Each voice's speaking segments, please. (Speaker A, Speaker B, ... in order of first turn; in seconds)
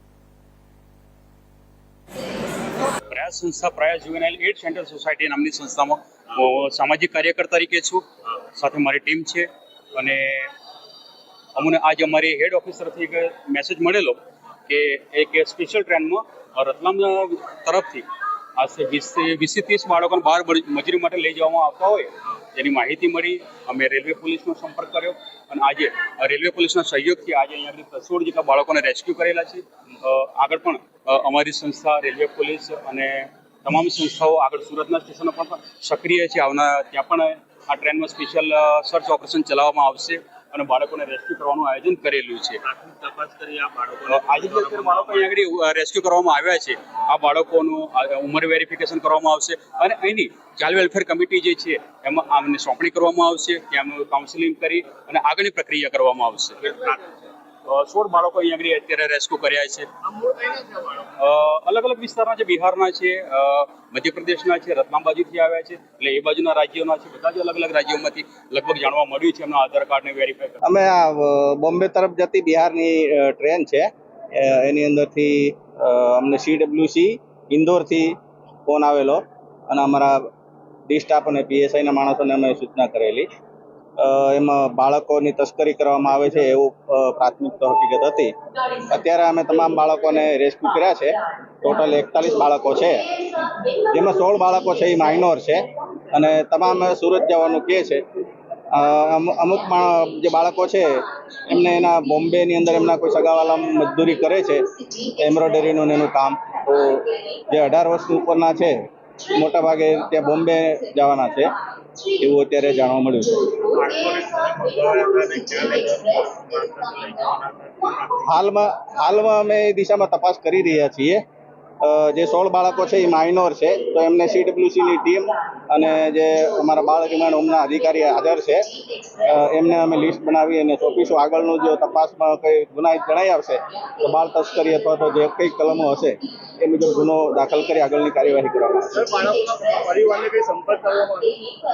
Speaker A: 3.1-10.5, 11.5-18.1, 18.6-42.6, 44.1-57.0, 57.6-59.9, 61.1-70.6
Speaker B: 42.6-45.2, 60.1-61.1, 113.5-118.2, 139.0-141.5
Speaker C: 70.6-78.1, 78.7-80.3, 80.9-83.3, 84.0-93.2, 93.9-98.0, 98.7-111.5, 112.1-113.5, 118.2-121.2, 121.8-139.2